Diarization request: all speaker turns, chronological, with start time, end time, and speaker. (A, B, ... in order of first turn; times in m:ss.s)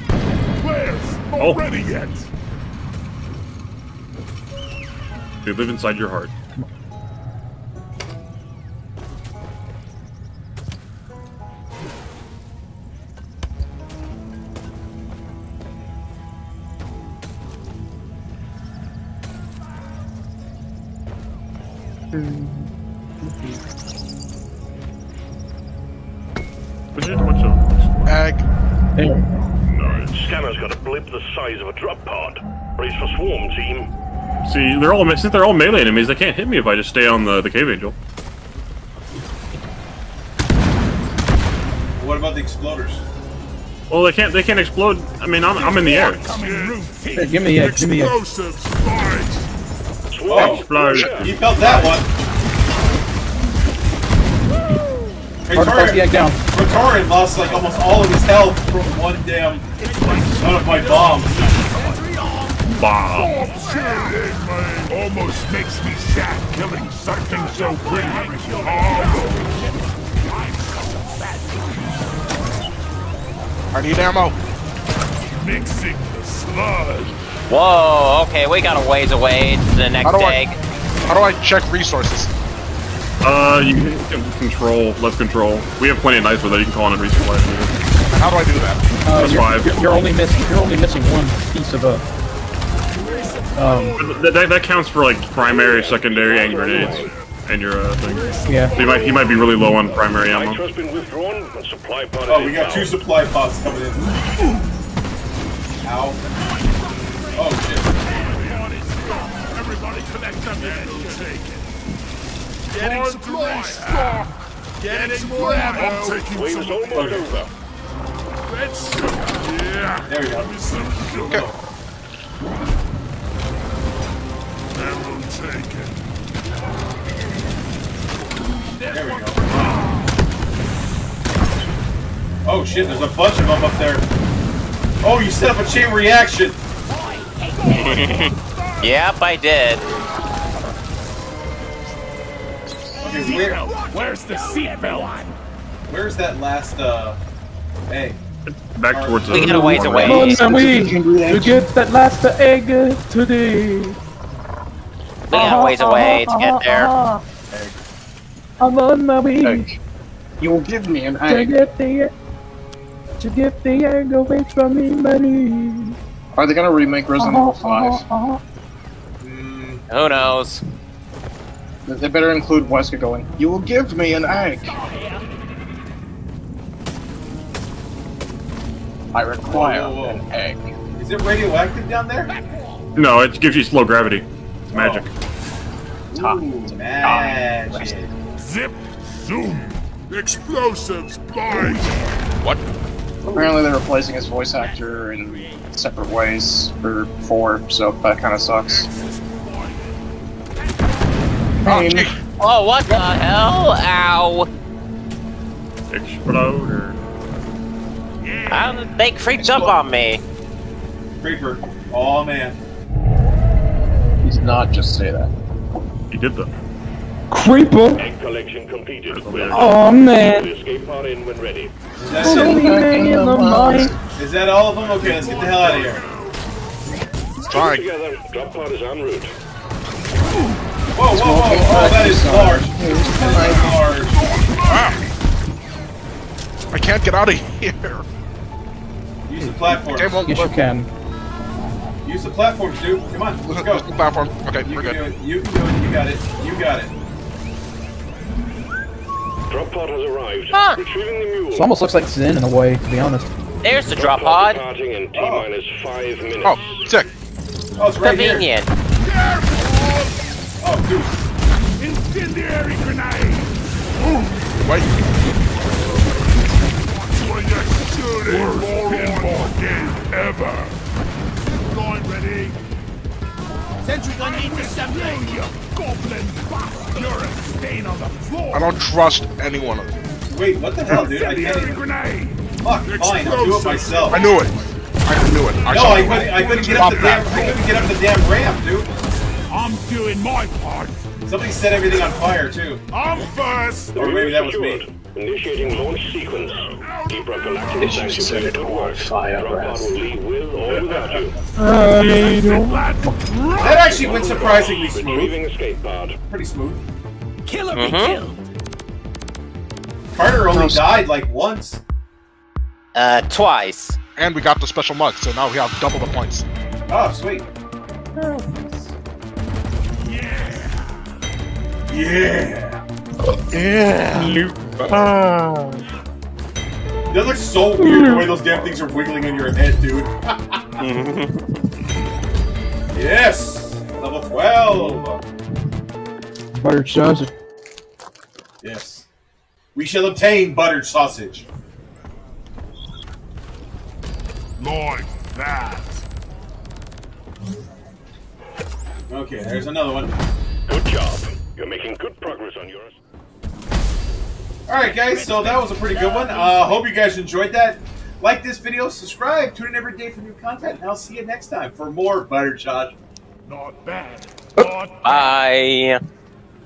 0:00.6-0:02.3 A
0:01.4-0:01.7 B
0:05.4-0:06.3 B
0:22.1-0:22.5 C
0:26.9-0:28.2 B
0:28.0-0:28.4 D
0:29.0-0:29.3 C
0:29.7-0:30.1 B
0:29.9-0:33.9 E
0:34.4-0:37.9 B
0:42.0-0:43.0 F
0:43.9-0:46.3 B
0:45.5-0:49.4 A
0:46.4-0:46.7 G
0:47.1-0:48.2 C
0:48.4-0:49.1 G
0:50.1-0:51.3 E
0:50.3-0:52.1 F
0:50.3-0:51.5 B
0:50.9-0:51.1 D
0:55.5-0:59.6 F
0:55.5-0:56.4 C
0:59.8-1:02.5 A
0:59.9-1:00.5 G
1:00.4-1:01.4 F
1:01.3-1:02.5 G
1:02.7-1:03.5 B
1:03.0-1:11.9 A
1:03.4-1:04.3 G
1:07.3-1:09.7 G
1:13.7-1:14.4 D
1:15.4-1:17.1 A
1:17.5-1:20.6 H
1:20.0-1:20.4 D
1:21.0-1:22.3 D
1:23.2-1:27.7 B
1:28.1-1:28.8 D
1:29.0-1:32.0 C
1:29.2-1:29.9 B
1:33.1-1:34.3 A
1:33.5-1:34.0 C
1:33.9-1:40.6 B
1:35.4-1:37.1 E
1:36.5-1:37.2 A
1:38.1-1:39.2 A
1:38.4-1:38.7 C
1:40.3-1:43.0 E
1:42.2-1:44.1 F
1:45.8-1:46.2 F
1:47.1-1:47.5 G
1:47.4-1:47.9 F
1:48.0-1:51.6 A
1:48.2-1:49.4 G
1:50.6-1:51.3 G
1:52.7-1:57.2 A
1:53.0-1:54.3 G
1:54.9-1:56.3 G
1:56.3-1:57.5 E
1:56.9-1:57.3 F
1:58.5-2:01.5 A
2:00.0-2:00.6 F
2:01.1-2:01.5 D
2:01.2-2:01.5 F
2:04.7-2:05.9 A
2:08.8-2:10.1 A
2:08.9-2:09.4 F
2:12.4-2:14.0 F
2:15.0-2:16.6 F
2:16.9-2:19.2 A
2:17.6-2:19.8 H
2:23.0-2:23.6 F
2:23.1-2:25.3 A
2:23.7-2:25.2 G
2:25.9-2:27.2 F
2:27.9-2:28.2 F
2:28.4-2:30.2 B
2:28.9-2:30.0 F
2:29.3-2:30.5 H
2:29.7-2:31.6 I
2:30.0-2:34.0 C
2:35.3-2:36.9 H
2:35.3-2:37.2 C
2:38.6-2:39.6 C
2:39.4-2:39.8 I
2:40.4-2:41.7 I
2:41.3-2:42.1 C
2:43.2-2:46.0 C
2:46.3-2:48.0 I
2:47.2-2:48.4 C
2:49.2-2:49.8 F
2:49.9-2:50.6 H
2:51.8-2:54.9 I
2:59.1-3:00.7 I
2:59.4-3:00.2 F
3:00.9-3:02.3 F
3:02.9-3:05.1 B
3:04.7-3:05.1 F
3:06.1-3:08.1 F
3:06.1-3:08.1 I
3:08.4-3:11.8 A
3:13.2-3:13.6 F
3:13.3-3:18.9 I
3:18.6-3:20.0 A
3:20.6-3:21.2 A
3:21.6-3:22.2 I
3:21.6-3:22.2 D
3:22.4-3:24.5 H
3:25.9-3:27.0 B
3:28.2-3:29.6 A
3:28.4-3:30.2 H
3:29.3-3:29.7 I
3:31.2-3:32.6 F
3:34.2-3:35.3 I
3:36.1-3:36.5 B
3:37.3-3:38.0 C
3:38.0-3:41.7 E
3:39.1-3:39.7 B
3:39.5-3:40.5 C
3:42.0-3:42.7 F
3:42.1-3:44.0 I
3:42.2-3:43.9 C
3:44.2-3:46.0 F
3:44.8-3:46.4 A
3:47.4-3:47.9 D
3:47.5-3:49.3 E
3:50.9-3:54.2 F
3:51.1-3:54.0 I
3:53.4-3:55.0 A
3:54.6-3:55.0 D
3:56.7-3:58.0 D
3:59.2-4:00.2 F
3:59.4-4:00.9 C
3:59.8-4:00.6 D
4:02.0-4:03.9 F
4:03.4-4:05.0 D
4:04.6-4:06.9 F
4:09.5-4:11.7 E
4:10.5-4:10.8 H
4:11.5-4:13.3 C
4:13.6-4:14.6 H
4:13.8-4:16.8 E
4:15.1-4:15.5 F
4:16.4-4:17.1 D
4:17.8-4:18.6 F
4:18.0-4:18.7 H
4:19.0-4:20.2 A
4:20.6-4:21.2 F
4:21.8-4:23.7 A
4:24.6-4:24.9 D
4:26.7-4:30.8 A
4:28.3-4:29.8 G
4:31.5-4:32.6 A
4:33.9-4:35.4 G
4:34.0-4:38.7 A
4:38.5-4:40.0 D
4:40.3-4:41.9 F
4:40.8-4:41.2 D
4:41.0-4:44.7 A
4:42.6-4:44.3 F
4:44.1-4:47.5 D
4:45.7-4:48.9 F
4:45.7-4:47.9 A
4:49.5-4:51.0 A
4:51.2-4:52.8 F
4:52.9-4:54.0 A
4:53.9-4:54.8 F
4:53.9-5:01.4 E
4:56.4-4:59.0 A
4:57.8-4:59.9 I
5:00.7-5:01.2 A
5:01.6-5:03.2 C
5:01.9-5:04.3 A
5:03.6-5:05.4 F
5:03.9-5:06.2 E
5:06.2-5:06.8 F
5:07.5-5:08.4 G
5:07.7-5:08.2 H
5:10.1-5:11.8 F
5:10.4-5:11.0 I
5:12.9-5:14.0 H
5:14.2-5:16.4 D
5:16.9-5:17.5 F
5:18.2-5:18.6 C
5:20.0-5:21.0 A
5:21.9-5:22.8 F
5:23.5-5:25.8 I
5:23.8-5:24.3 H
5:27.1-5:30.8 F
5:27.8-5:28.3 C
5:30.8-5:31.3 H
5:32.9-5:35.2 F
5:36.5-5:37.3 C
5:38.6-5:39.0 F
5:39.7-5:41.4 F
5:44.6-5:45.9 A
5:49.1-5:50.2 F
5:50.7-5:52.9 E
5:54.7-6:02.9 F
6:03.4-6:05.4 A
6:05.0-6:06.0 H